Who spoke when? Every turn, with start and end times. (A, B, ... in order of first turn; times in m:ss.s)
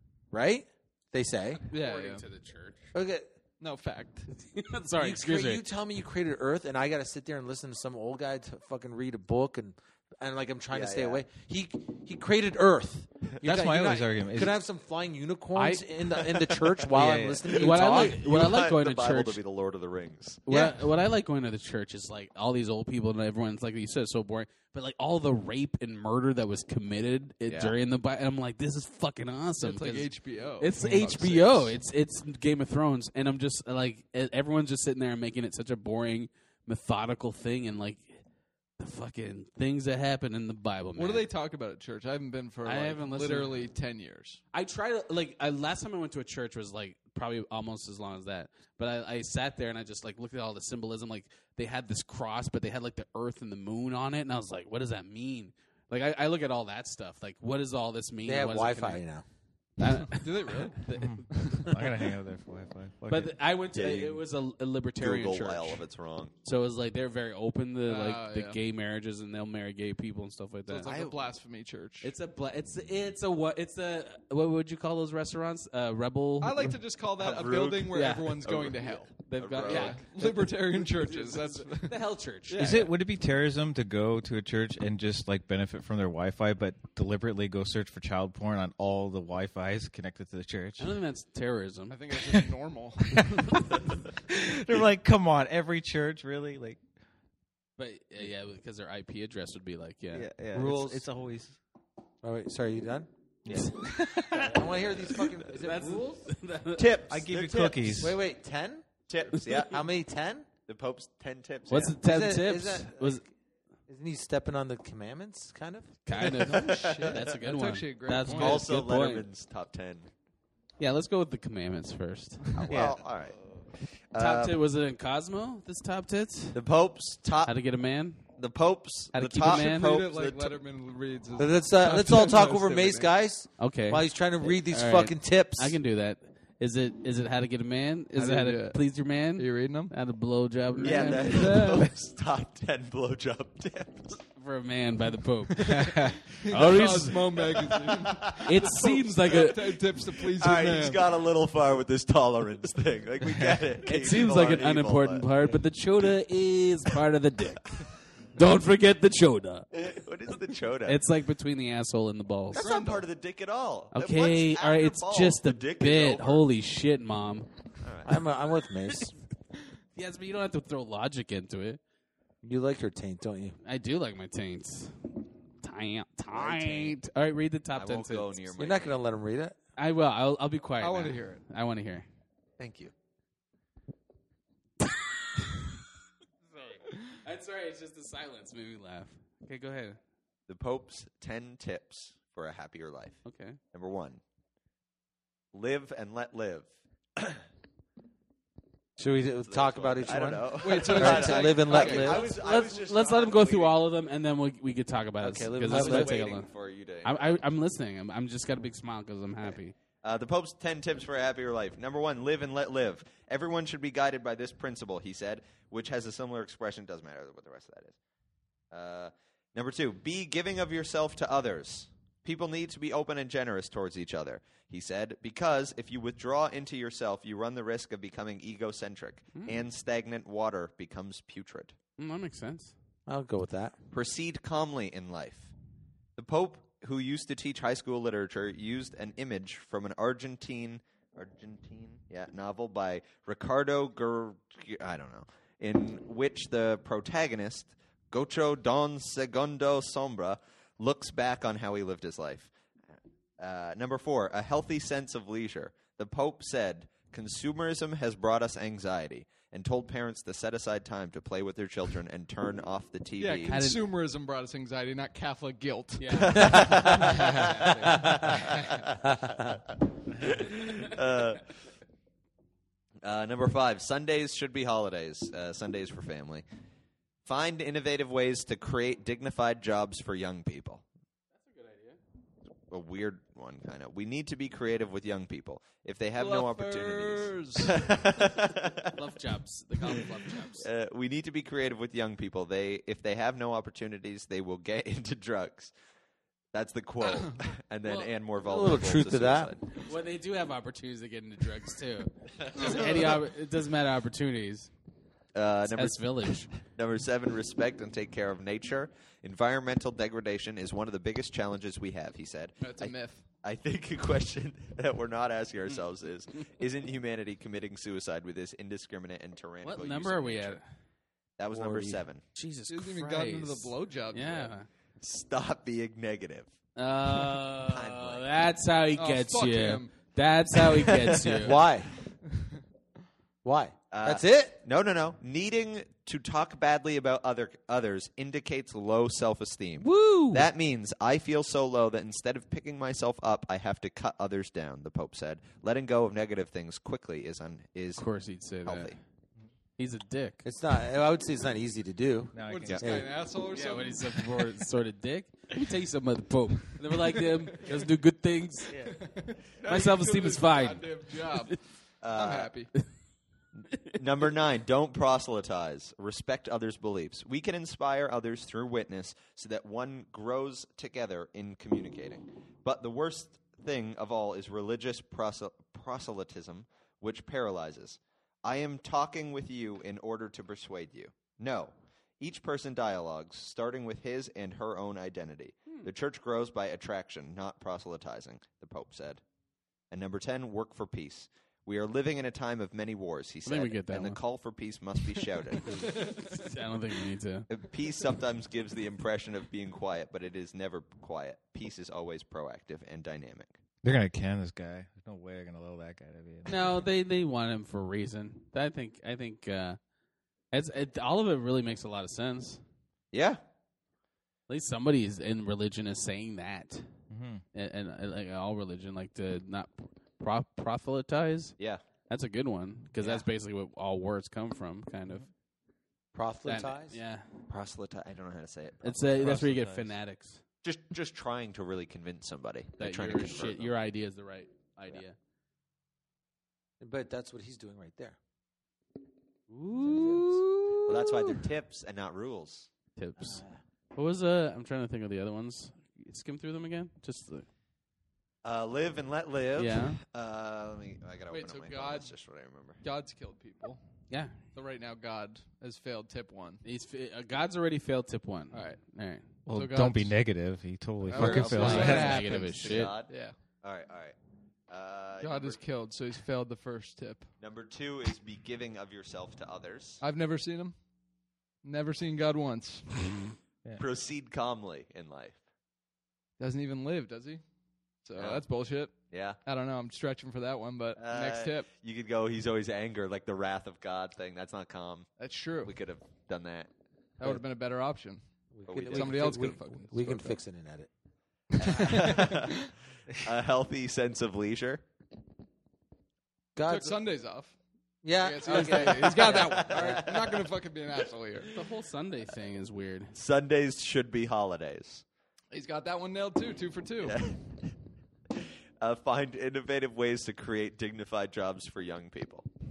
0:00.3-0:01.6 A
0:01.7-0:02.2 B
0:01.7-0:02.8 C
0:02.9-0:03.3 A
0:03.6-0:04.3 B
0:04.3-0:05.7 C
0:05.0-0:18.2 A
0:10.7-0:11.2 D
0:13.4-0:14.6 E
0:15.6-0:15.8 C
0:16.3-0:16.7 D
0:16.9-0:17.5 E
0:17.5-0:19.4 C
0:17.7-0:20.5 D
0:20.5-0:38.2 C
0:20.5-0:20.8 A
0:27.5-0:27.8 D
0:29.6-0:31.7 B
0:38.8-0:41.3 C
0:41.0-0:44.4 B
0:42.6-0:43.7 C
0:44.5-0:59.0 C
0:58.3-0:59.2 A
0:59.8-1:01.3 C
0:59.8-1:01.7 B
1:00.9-1:03.4 E
1:03.1-1:05.8 C
1:03.7-1:04.2 D
1:05.0-1:06.3 D
1:06.4-1:11.0 C
1:07.8-1:08.6 B
1:10.7-1:12.1 B
1:10.8-1:11.2 D
1:12.0-1:16.7 C
1:16.4-1:22.0 B
1:17.2-1:20.1 D
1:17.9-1:18.3 C
1:19.2-1:22.8 C
1:22.5-1:23.0 B
1:22.6-1:30.9 E
1:30.8-1:32.0 C
1:31.9-1:33.6 B
1:33.1-1:33.8 E
1:34.3-1:36.8 E
1:37.8-1:40.3 C
1:40.1-1:41.6 E
1:40.5-1:41.1 A
1:42.2-1:43.1 A
1:43.5-1:44.6 E
1:43.5-1:44.4 C
1:44.2-1:46.3 A
1:45.4-1:46.9 C
1:46.8-1:48.2 D
1:47.1-1:48.2 E
1:48.0-1:48.9 A
1:49.1-1:49.9 D
1:49.4-1:50.5 A
1:50.7-1:52.0 D
1:51.7-1:53.2 C
1:52.0-1:53.3 A
1:53.9-1:56.0 A
1:56.1-1:59.2 C
1:56.4-1:58.7 B
1:58.2-2:00.1 D
2:00.8-2:02.7 C
2:02.7-2:03.4 D
2:02.7-2:03.0 E
2:04.1-2:04.6 D
2:04.2-2:06.6 C
2:06.5-2:07.6 D
2:07.5-2:08.2 C
2:08.4-2:10.6 D
2:09.1-2:10.0 C
2:09.4-2:13.1 B
2:11.4-2:15.8 A
2:13.6-2:21.9 C
2:18.2-2:19.9 B
2:20.7-2:21.9 B
2:20.8-2:24.2 D
2:24.4-2:27.2 C
2:25.6-2:31.0 B
2:26.8-2:28.7 D
2:28.4-2:29.7 C
2:30.0-2:35.3 D
2:33.8-2:37.8 C
2:38.4-2:39.7 C
2:39.8-2:41.0 D
2:40.9-2:42.7 C
2:42.5-2:46.4 D
2:42.6-2:43.0 B
2:43.9-2:47.5 C
2:47.8-2:48.2 D
2:48.0-2:49.1 A
2:50.0-2:51.8 C
2:52.4-2:53.6 A
2:53.6-2:58.3 C
2:56.3-2:57.0 D
2:57.8-2:59.0 D
2:58.6-2:59.6 A
2:59.8-3:02.1 C
3:00.8-3:01.4 B
3:02.6-3:02.9 D
3:06.5-3:10.0 C
3:10.5-3:13.2 D
3:13.2-3:13.6 C
3:13.7-3:14.2 D
3:15.5-3:16.7 D
3:19.0-3:22.3 A
3:19.4-3:23.8 D
3:20.6-3:22.2 B
3:21.7-3:26.5 C
3:25.2-3:26.2 A
3:25.7-3:27.4 D
3:27.0-3:29.7 C
3:30.0-3:38.0 D
3:38.7-3:51.8 D
3:52.0-3:52.7 C
3:53.1-3:53.8 A
3:53.9-3:55.5 D
3:56.2-4:12.5 D
4:13.4-4:23.6 D
4:23.2-4:27.3 B
4:23.5-4:23.8 C
4:26.0-4:28.2 C
4:26.1-4:29.0 D
4:29.1-4:29.6 A
4:30.2-4:31.5 D
4:33.0-4:36.4 D
4:37.2-4:40.8 D
4:41.4-4:42.0 C
4:42.7-4:49.0 D
4:46.2-4:47.9 B
4:48.9-4:50.7 C
4:50.6-4:55.7 D
4:56.5-4:59.7 D
4:57.8-4:58.1 C
4:58.4-4:59.5 A
4:59.8-5:04.7 C
5:02.5-5:02.9 D
5:02.6-5:02.8 B
5:05.4-5:20.6 D
5:05.7-5:06.5 C
5:12.6-5:13.3 B
5:19.6-5:20.6 C
5:21.4-5:22.2 D
5:21.5-5:22.0 A
5:22.4-5:24.7 C
5:22.7-5:24.6 B
5:25.0-5:26.5 D
5:26.8-5:31.6 C
5:27.6-5:28.3 D
5:29.0-5:30.0 B
5:30.9-5:31.4 D
5:31.4-5:31.9 A
5:33.4-5:34.6 A
5:33.9-5:48.0 D
5:39.8-5:40.4 C
5:48.0-5:49.0 C
5:48.6-5:49.0 D
5:49.8-5:50.4 C
5:50.4-5:53.1 A
5:52.3-5:53.0 E
5:52.4-5:54.4 B
5:53.5-5:58.8 C
5:57.0-5:57.8 B
5:58.7-6:01.6 B
5:59.7-6:01.6 C
6:02.0-6:02.5 D
6:02.1-6:02.7 B
6:04.0-6:29.2 D
6:29.9-6:36.0 D
6:33.5-6:34.2 C
6:35.7-6:37.5 C
6:35.9-6:36.2 B
6:37.5-6:43.5 D
6:43.8-6:46.8 E
6:46.5-6:49.8 C
6:50.5-6:52.6 C
6:53.1-6:53.4 D
6:54.5-6:56.9 C
6:57.1-6:57.4 E
6:57.5-7:01.6 C
7:02.1-7:05.3 C
7:06.1-7:07.0 A
7:06.4-7:07.3 C
7:07.5-7:09.5 D
7:08.8-7:10.4 C
7:09.2-7:09.9 E
7:10.6-7:13.7 D
7:12.8-7:15.2 C
7:16.8-7:18.2 A
7:19.5-7:20.9 C
7:19.8-7:20.5 A
7:20.9-7:22.7 D
7:23.0-7:23.4 C
7:23.2-7:23.6 A
7:24.0-7:27.5 C
7:28.4-7:32.8 D
7:29.6-7:30.0 C
7:31.3-7:32.1 B
7:32.8-7:33.8 B
7:34.1-7:34.4 C
7:34.5-7:36.6 B
7:36.6-7:39.3 C
7:38.5-7:38.8 B
7:39.5-7:42.4 E
7:39.5-7:40.2 B
7:41.1-7:43.4 B
7:41.1-7:44.2 D
7:41.2-7:43.0 C
7:44.7-7:45.6 D
7:45.2-7:47.3 B
7:47.4-7:50.0 D
7:50.0-7:50.8 B
7:51.6-7:53.2 B
7:53.8-7:55.4 D
7:56.4-7:57.4 B
7:58.0-8:01.7 B
7:58.2-7:58.4 D
7:59.1-7:59.4 D
8:01.0-8:05.1 D
8:05.2-8:05.7 B
8:05.6-8:06.7 D
8:07.2-8:08.2 B
8:08.5-8:10.9 A
8:08.7-8:09.6 D
8:08.9-8:10.4 B
8:11.6-8:12.7 B
8:11.6-8:14.8 D
8:16.6-8:17.0 A
8:16.6-8:17.6 B
8:18.0-8:20.0 A
8:18.2-8:21.5 B
8:18.6-8:20.5 D
8:21.5-8:23.2 C
8:23.1-8:25.0 D
8:25.5-8:27.2 B
8:27.0-8:27.7 D
8:28.8-8:32.5 D